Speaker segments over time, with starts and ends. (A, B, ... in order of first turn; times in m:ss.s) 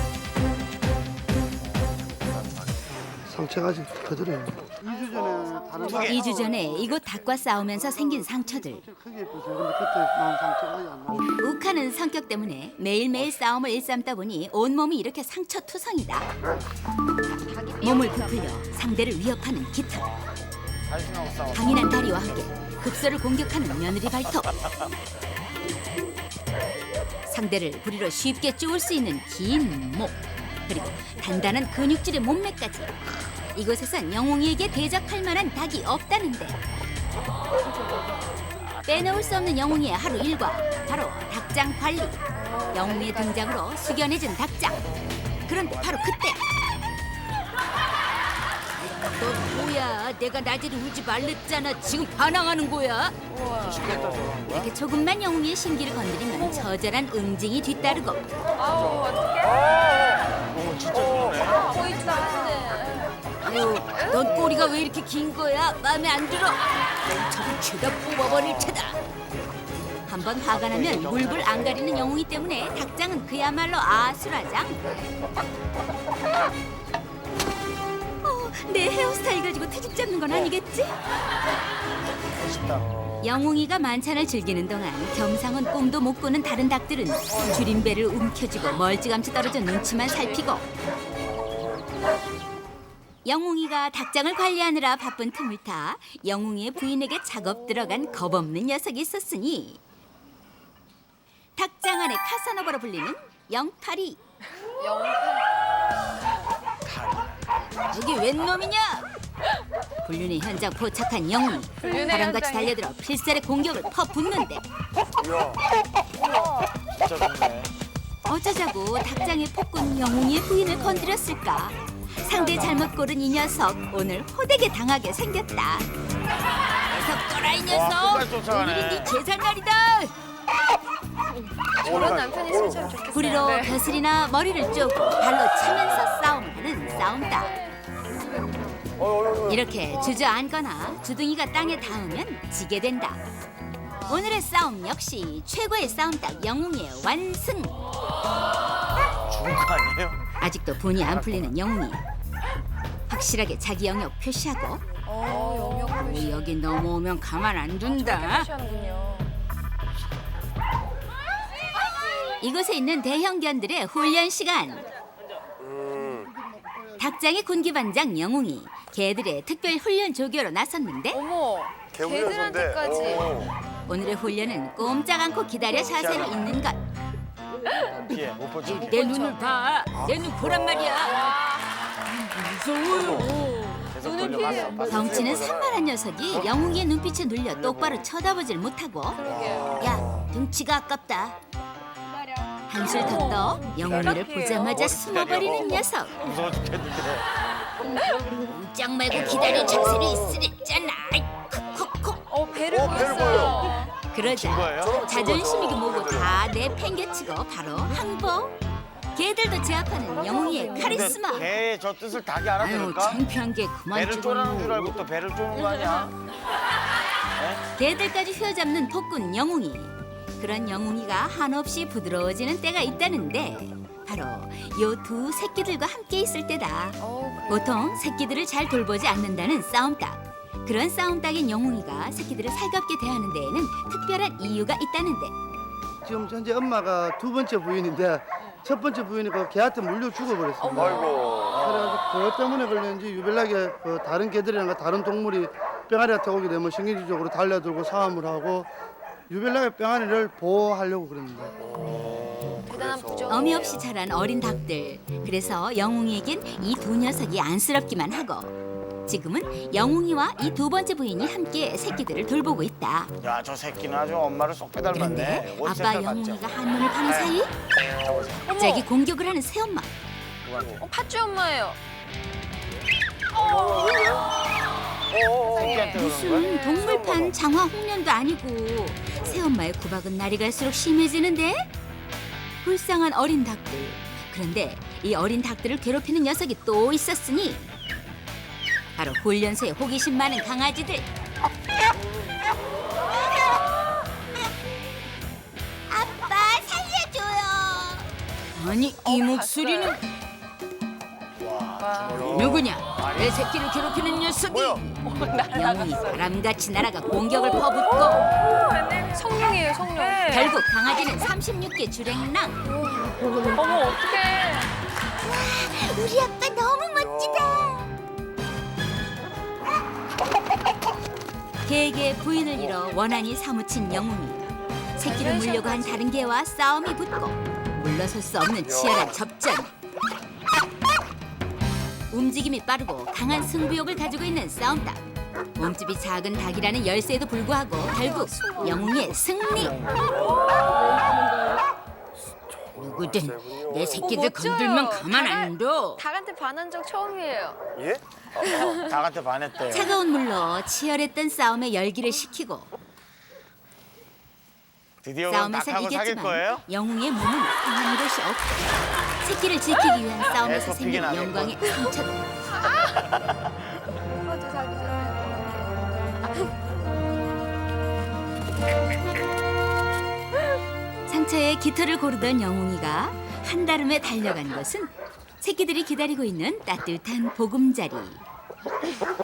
0:02.2-0:03.0 A
0:03.2-0:11.3 B
0:04.8-0:06.4 C
0:05.8-0:06.3 A
0:05.8-0:08.8 D
0:11.4-0:16.3 D
0:17.4-0:18.5 C
0:17.8-0:20.1 D
0:20.8-0:22.0 A
0:21.5-0:24.6 D
0:27.3-0:32.9 D
0:33.5-0:36.6 D
0:38.6-0:39.5 A
0:38.8-0:42.2 D
0:42.4-0:43.4 C
0:42.7-0:44.8 D
0:45.4-0:46.4 D
0:45.7-0:46.0 A
0:48.8-0:53.2 D
0:53.3-0:53.9 C
0:53.6-0:54.7 A
0:54.5-0:58.2 D
0:56.3-0:56.7 C
0:58.6-1:00.0 C
1:00.4-1:01.9 A
1:01.3-1:03.2 C
1:03.4-1:09.0 D
1:03.7-1:04.7 A
1:03.9-1:04.2 C
1:08.2-1:08.8 A
1:10.0-1:14.8 D
1:10.5-1:12.2 A
1:18.2-1:20.9 D
1:22.3-1:22.9 A
1:23.2-1:30.6 D
1:33.2-1:39.8 D
1:41.6-1:44.2 D
1:44.7-1:45.5 C
1:46.8-1:47.4 A
1:47.9-1:49.1 D
1:50.0-1:54.6 D
1:51.8-1:52.8 C
1:55.2-1:55.6 A
1:56.2-1:56.6 C
1:57.0-1:57.7 A
1:58.2-2:05.9 D
2:06.9-2:10.1 D
2:07.6-2:09.2 A
2:11.7-2:13.8 C
2:11.8-2:12.4 A
2:13.1-2:17.6 D
2:19.4-2:23.2 D
2:24.0-2:27.8 D
2:29.1-2:30.2 A
2:30.4-2:32.0 D
2:31.0-2:31.5 A
2:33.1-2:38.5 D
2:35.0-2:36.5 C
2:37.8-2:39.3 C
2:42.4-2:44.9 D
2:46.0-2:46.9 B
2:47.0-2:51.2 D
2:51.1-2:53.5 C
2:52.9-2:53.5 A
2:53.9-2:56.8 D
2:55.9-2:56.5 A
2:58.0-2:59.0 A
2:58.6-3:01.3 D
2:58.8-2:59.5 C
2:59.9-3:01.1 A
3:00.9-3:01.8 C
3:02.1-3:03.9 D
3:02.8-3:03.4 A
3:03.9-3:05.3 C
3:03.9-3:06.6 A
3:04.8-3:09.2 D
3:07.5-3:08.0 A
3:09.1-3:10.0 C
3:09.2-3:10.3 A
3:09.8-3:11.4 D
3:12.7-3:16.2 D
3:12.8-3:14.8 C
3:12.8-3:17.3 A
3:17.9-3:22.2 D
3:19.2-3:19.8 A
3:22.3-3:23.9 C
3:23.0-3:23.5 A
3:23.1-3:23.5 D
3:24.1-3:28.6 D
3:24.2-3:26.3 A
3:29.1-3:31.5 D
3:30.1-3:31.4 C
3:30.7-3:33.2 A
3:32.6-3:35.0 D
3:33.9-3:36.1 A
3:37.4-3:37.6 A
3:37.8-3:55.3 D
3:47.0-3:47.9 C
3:56.0-4:08.7 B
4:00.6-4:01.5 C
4:00.8-4:02.0 A
4:09.3-4:11.5 B
4:11.4-4:13.8 C
4:13.3-4:18.5 D
4:19.0-4:23.1 D
4:23.2-4:28.6 A
4:24.9-4:27.5 D
4:28.4-4:29.9 D
4:28.5-4:28.9 C
4:30.4-4:30.8 A
4:30.8-4:31.8 C
4:33.4-4:34.2 C
4:33.7-4:34.0 A
4:35.1-4:37.3 A
4:35.4-4:36.8 C
4:35.5-4:41.7 D
4:42.6-4:47.7 D
4:49.0-4:51.1 D
4:55.9-5:00.0 D
4:59.0-5:00.0 C
5:01.4-5:03.4 A
5:01.8-5:02.6 C
5:02.2-5:08.3 D
5:04.5-5:04.8 A
5:05.0-5:06.2 C
5:08.0-5:10.6 C
5:10.2-5:12.6 D
5:12.6-5:14.7 C
5:15.2-5:18.0 D
5:21.6-5:24.4 D
5:25.0-5:29.7 D
5:25.0-5:26.3 C
5:32.1-5:35.0 D
5:35.6-5:39.9 D
5:37.9-5:39.0 C
5:38.9-5:40.1 A
5:42.7-5:46.0 D
5:43.7-5:44.1 A
5:44.0-5:47.6 C
5:47.8-5:50.0 A
5:48.4-5:48.8 C
5:49.7-5:52.7 D
5:55.0-5:56.6 A
5:55.3-5:58.6 D
5:59.2-6:02.3 D
6:00.3-6:01.8 A
6:02.8-6:03.5 A
6:04.0-6:06.5 C
6:11.1-6:18.2 D